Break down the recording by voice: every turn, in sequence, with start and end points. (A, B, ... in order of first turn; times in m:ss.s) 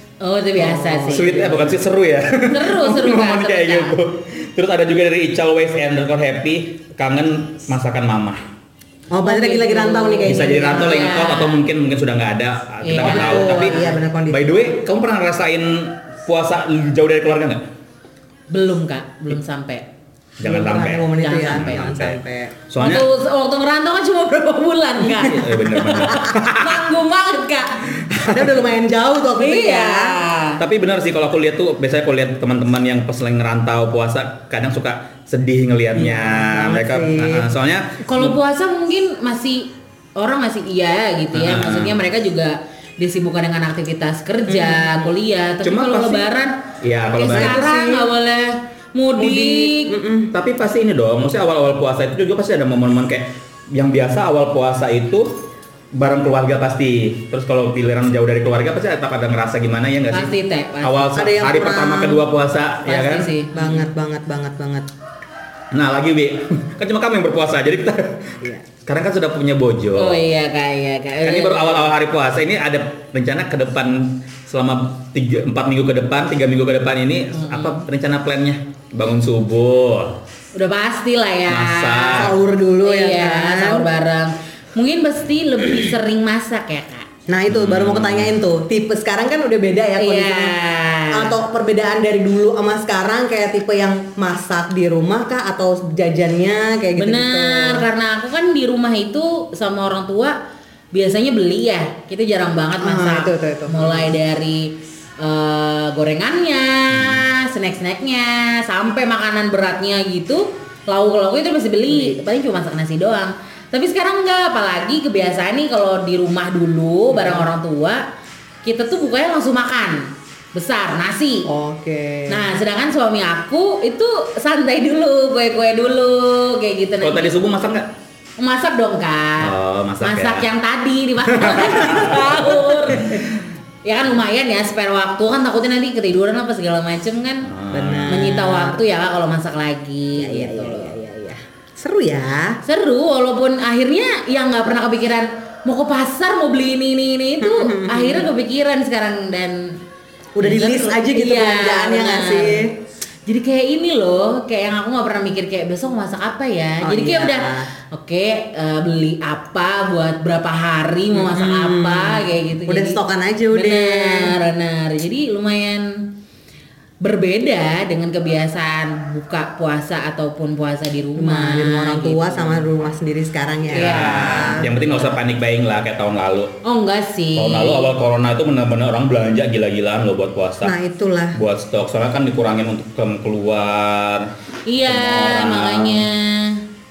0:00.2-0:01.6 A
0:00.6-0:01.4 B
0:01.1-0:08.4 C
0:02.5-0:04.0 A
0:09.1-0:11.1 B
0:09.2-0:11.6 A
0:10.3-0:17.6 C
0:12.8-0:14.0 A
0:13.0-0:14.5 B
0:18.5-0:19.8 A
0:20.4-0:22.2 C
0:20.4-0:22.6 B
0:21.2-0:21.9 A
0:22.7-0:23.0 C
0:22.8-0:27.8 A
0:25.2-0:26.8 C
0:28.2-0:28.5 C
0:28.2-0:30.2 B
0:29.4-0:30.6 A
0:30.6-0:38.4 C
0:35.9-0:37.5 B
0:38.0-0:46.6 A
0:41.3-0:41.9 C
0:44.5-0:45.1 B
0:45.6-0:46.3 C
0:46.8-0:47.6 C
0:47.2-0:49.9 A
0:47.3-0:48.1 B
0:49.2-0:50.3 B
0:50.3-0:55.4 C
0:55.9-1:03.3 C
1:00.1-1:01.2 A
1:01.1-1:02.2 B
1:02.8-1:03.5 A
1:03.5-1:04.9 B
1:05.7-1:08.3 C
1:08.8-1:10.2 C
1:10.0-1:11.9 A
1:11.2-1:20.2 C
1:17.3-1:17.8 A
1:20.5-1:22.3 A
1:21.5-1:22.3 C
1:22.2-1:23.9 B
1:22.8-1:27.0 A
1:27.3-1:30.5 B
1:27.5-1:28.3 C
1:30.0-1:31.3 A
1:31.1-1:37.8 B
1:37.0-1:40.4 A
1:40.9-1:58.0 A
1:42.8-1:44.1 B
1:46.9-1:47.2 C
1:51.9-1:52.2 B
1:57.1-1:57.5 B
1:58.6-2:01.5 A
2:01.5-2:02.4 B
2:02.3-2:07.4 A
2:07.0-2:07.9 C
2:08.4-2:13.2 A
2:09.4-2:10.4 C
2:11.3-2:12.4 C
2:12.4-2:13.0 B
2:13.8-2:17.5 A
2:17.5-2:18.2 C
2:17.7-2:18.8 B
2:18.1-2:21.0 A
2:20.1-2:22.6 B
2:22.6-2:29.8 A
2:27.4-2:28.3 B
2:30.4-2:32.7 B
2:30.4-2:32.6 A
2:33.2-2:43.0 A
2:36.8-2:37.7 B
2:41.1-2:44.3 B
2:43.5-2:46.0 A
2:47.0-2:52.6 A
2:51.2-2:54.7 B
2:53.7-2:56.5 C
2:53.7-2:55.1 A
2:56.6-2:57.9 A
2:57.4-3:00.7 C
3:00.6-3:01.4 B
3:01.3-3:04.3 C
3:04.7-3:06.6 A
3:04.8-3:06.0 C